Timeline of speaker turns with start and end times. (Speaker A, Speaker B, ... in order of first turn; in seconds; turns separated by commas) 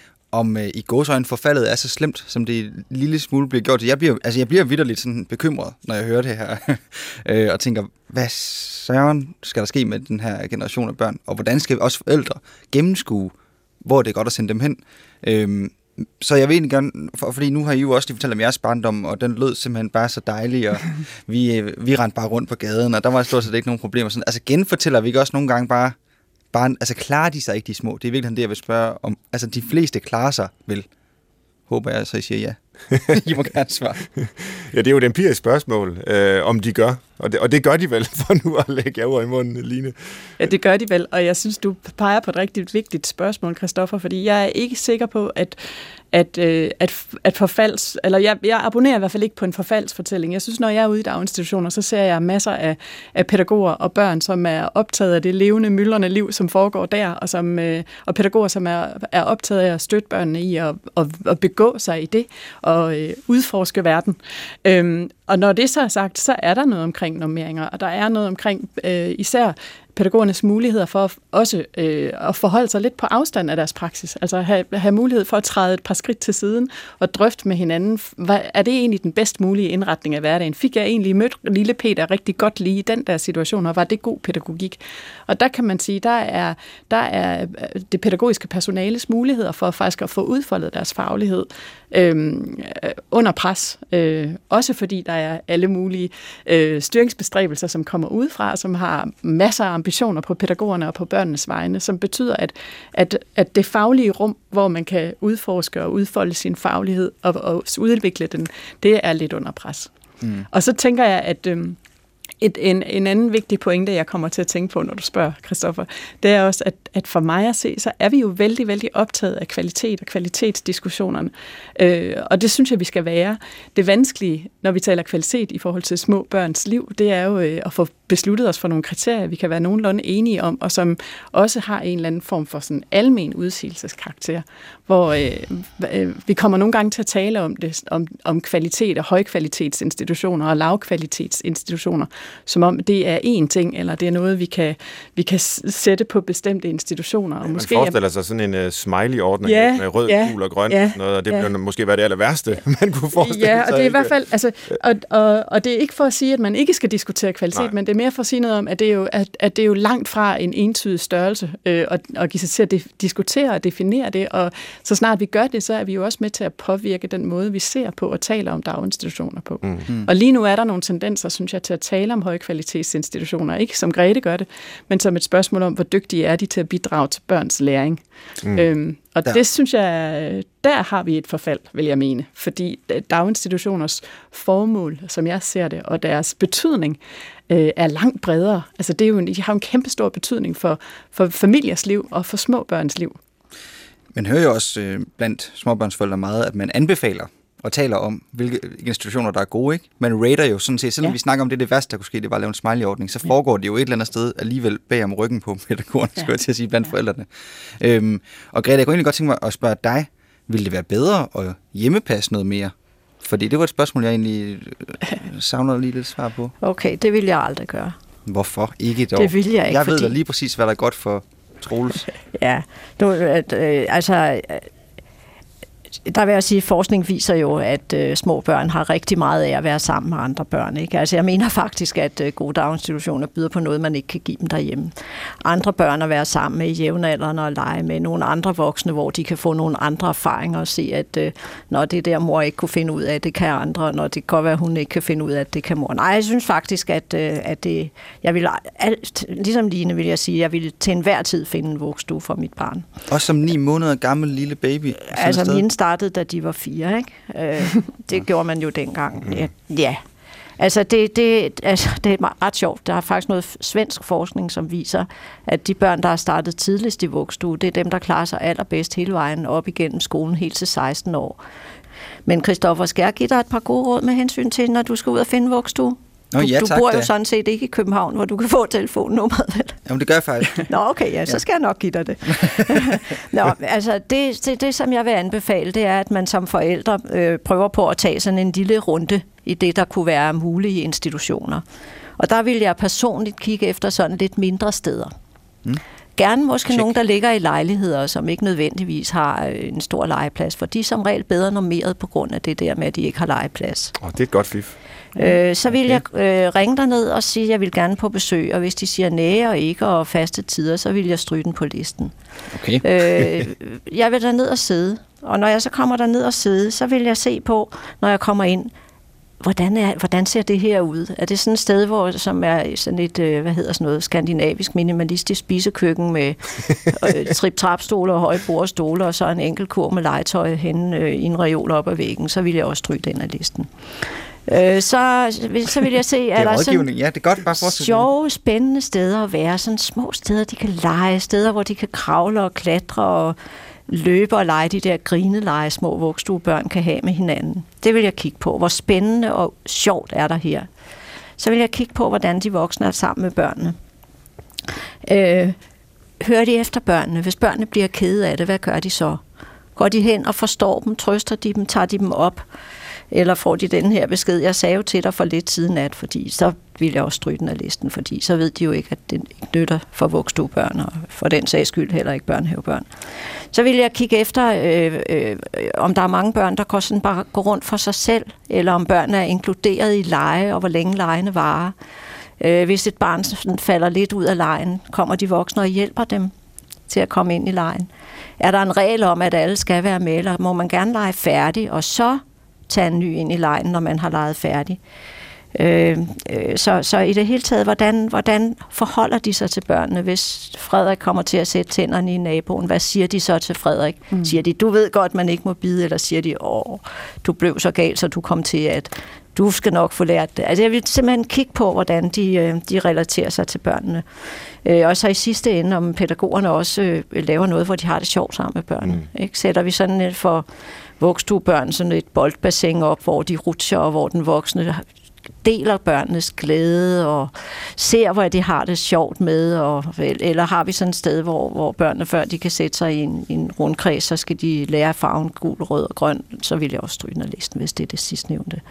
Speaker A: 0.3-25.9, Speaker A: 26.5-30.9, Speaker A: 31.7-34.0, Speaker B: 34.4-40.5, Speaker C: 40.4-45.6, Speaker C: 46.1-109.9, Speaker A: 110.2-110.5, Speaker C: 110.5-111.8, Speaker C: 112.4-147.9, Speaker B: 147.4-154.1, Speaker C: 149.4-151.5, Speaker C: 153.2-193.2, Speaker A: 194.1-216.5, Speaker D: 216.6-217.9, Speaker A: 218.3-222.1, Speaker D: 219.2-220.2, Speaker D: 222.3-224.7, Speaker D: 226.1-234.9, Speaker D: 235.4-252.8, Speaker A: 253.1-255.6, Speaker D: 255.1-260.0, Speaker D: 260.6-271.4, Speaker D: 272.3-279.8, Speaker A: 276.3-277.1, Speaker A: 279.9-280.7, Speaker D: 280.7-291.6, Speaker A: 282.4-283.0, Speaker D: 292.2-295.1, Speaker D: 296.2-303.9, Speaker B: 304.0-304.7, Speaker D: 305.1-312.1, Speaker A: 312.5-313.4, Speaker D: 312.8-318.7, Speaker D: 319.4-333.7, Speaker D: 334.5-336.9, Speaker A: 336.4-338.1, Speaker D: 337.5-343.4, Speaker D: 343.9-350.7, Speaker D: 351.4-353.8, Speaker D: 355.0-355.6, Speaker D: 356.2-359.2, Speaker D: 359.8-362.4, Speaker D: 363.1-372.9, Speaker D: 373.5-381.7, Speaker D: 382.4-386.3, Speaker D: 386.9-387.9, Speaker D: 388.4-394.8, Speaker D: 395.5-414.0, Speaker D: 414.6-420.4, Speaker D: 421.0-424.8, Speaker D: 425.4-438.6